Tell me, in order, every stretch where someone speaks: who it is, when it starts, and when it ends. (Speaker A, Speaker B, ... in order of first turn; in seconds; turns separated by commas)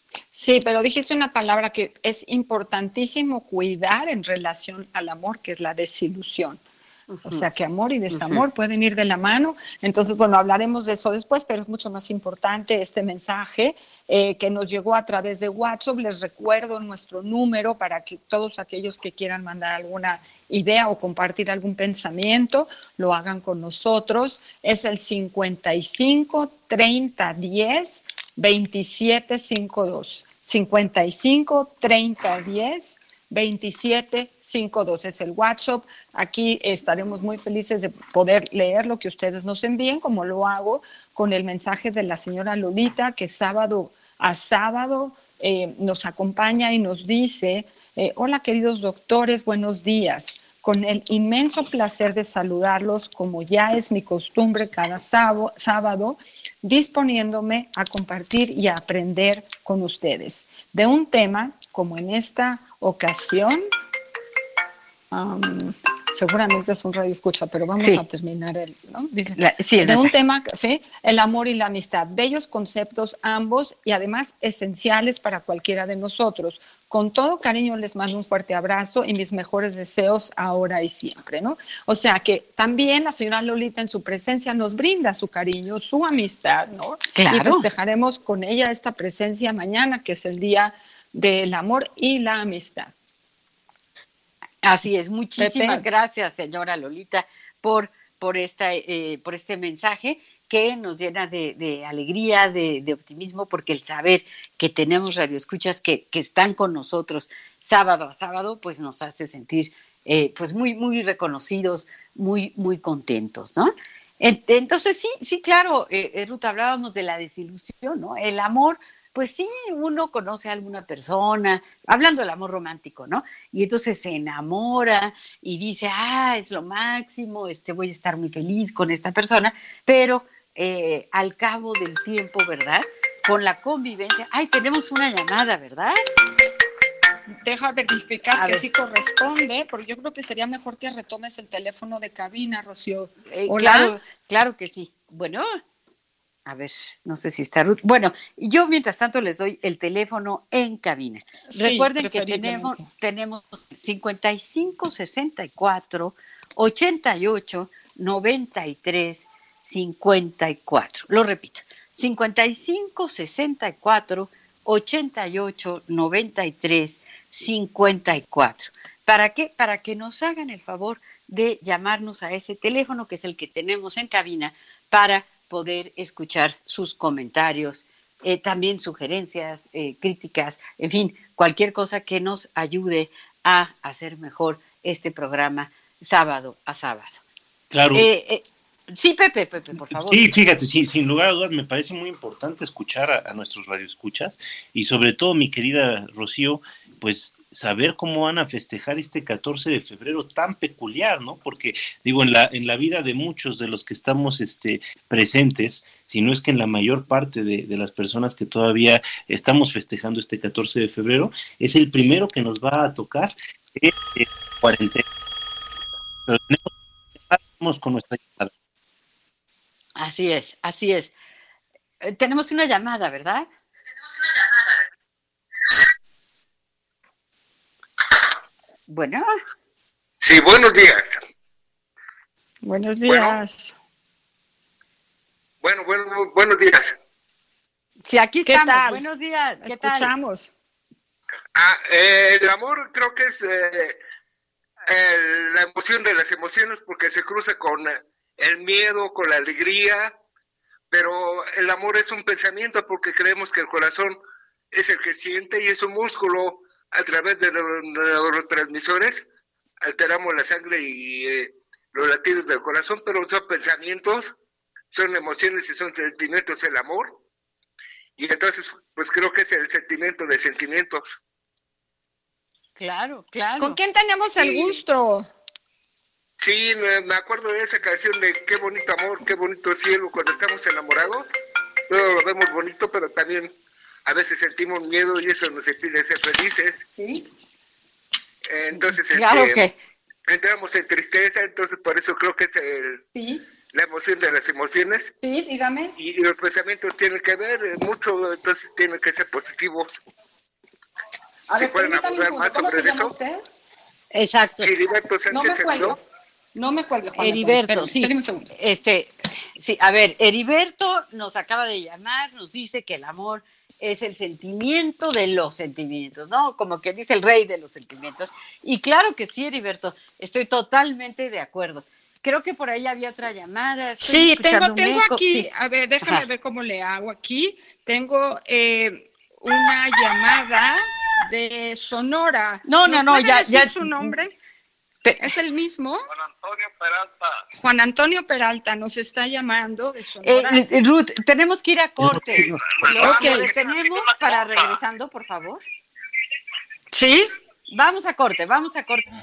Speaker A: 0.3-6.6, Speaker B: 7.1-7.4, Speaker A: 7.2-63.6, Speaker B: 8.1-8.4, Speaker A: 65.1-92.9, Speaker B: 69.3-70.1, Speaker B: 87.1-87.7, Speaker B: 94.6-136.0, Speaker A: 95.4-95.8, Speaker A: 137.4-143.9, Speaker B: 138.3-138.7, Speaker B: 143.3-145.6, Speaker B: 146.4-187.2, Speaker A: 151.5-152.8, Speaker C: 187.7-188.1, Speaker B: 187.9-190.3, Speaker C: 189.9-215.0, Speaker C: 216.3-216.7, Speaker C: 217.3-218.5, Speaker B: 219.9-221.1, Speaker B: 222.0-223.4, Speaker B: 228.9-229.3, Speaker D: 230.2-231.2, Speaker A: 232.6-233.7, Speaker D: 233.1-233.4, Speaker D: 235.6-236.9, Speaker B: 238.0-240.1, Speaker A: 238.5-239.0, Speaker A: 239.6-240.5, Speaker D: 241.5-244.0, Speaker D: 244.9-250.1, Speaker D: 250.9-254.2, Speaker D: 254.7-259.2, Speaker D: 259.8-264.3, Speaker D: 264.9-267.2, Speaker D: 268.2-271.2, Speaker B: 272.8-273.8, Speaker A: 273.6-275.2, Speaker D: 274.4-274.8, Speaker D: 276.4-281.3, Speaker D: 281.9-286.8, Speaker A: 286.9-287.2, Speaker D: 288.5-289.6, Speaker B: 289.1-289.8, Speaker D: 290.3-293.0, Speaker A: 293.1-293.4, Speaker D: 293.7-295.1, Speaker A: 295.2-295.9, Speaker D: 296.0-300.0, Speaker A: 301.5-303.4, Speaker D: 301.5-303.1, Speaker B: 304.1-304.7, Speaker D: 304.6-306.0, Speaker A: 305.3-306.0, Speaker A: 306.5-308.4, Speaker B: 307.2-325.5, Speaker A: 323.9-334.3, Speaker B: 332.6-334.1, Speaker B: 335.0-335.3, Speaker A: 335.2-336.0, Speaker D: 336.5-337.1, Speaker A: 337.5-340.6, Speaker B: 340.2-345.6, Speaker A: 343.0-343.5, Speaker D: 343.0-344.3, Speaker A: 346.9-347.3, Speaker B: 347.7-349.0